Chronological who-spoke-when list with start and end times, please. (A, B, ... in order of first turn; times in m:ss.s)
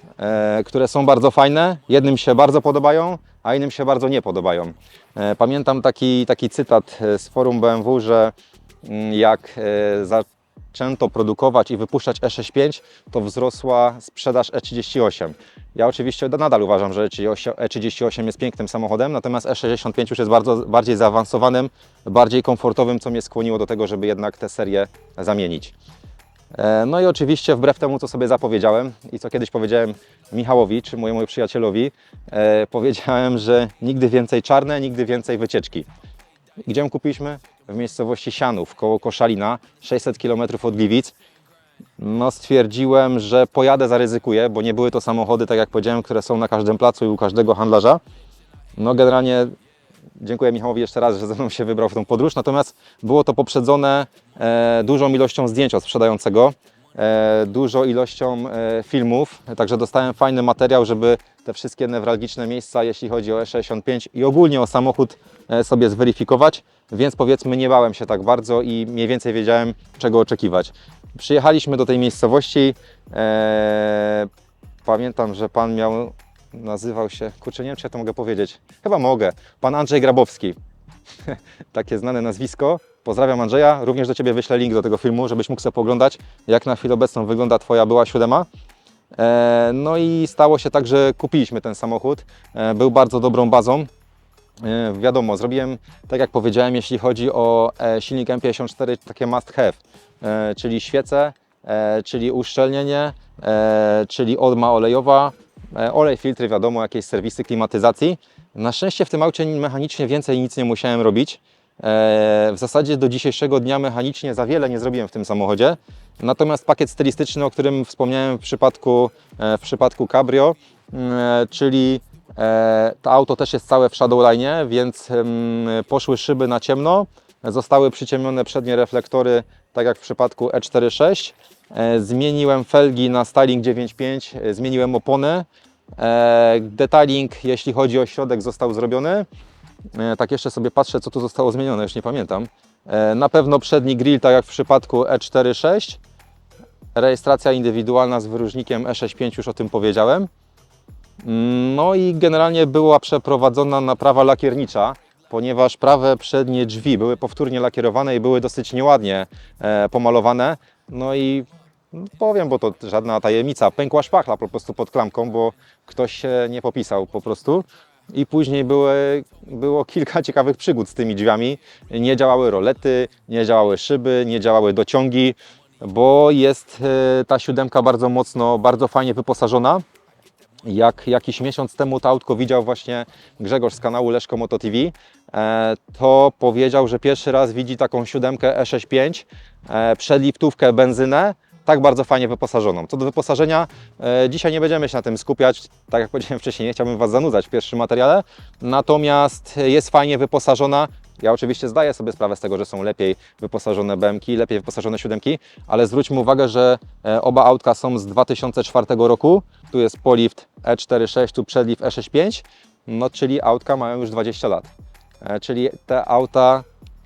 0:00.2-0:08.3 A
0:08.8-0:25.7 A
0:26.5-0:35.9 A
0:36.6-0:41.1 A
0:42.0-0:48.0 A
0:48.8-0:49.5 A
0:50.2-1:14.3 A
1:14.8-1:20.6 A
1:21.2-1:28.5 A
1:29.2-1:33.9 A
1:34.6-2:15.4 A
2:16.0-2:19.3 A
2:19.9-2:26.0 A
2:26.9-2:30.3 A
2:31.2-2:59.8 A
3:00.6-3:34.7 A
3:35.2-3:36.6 A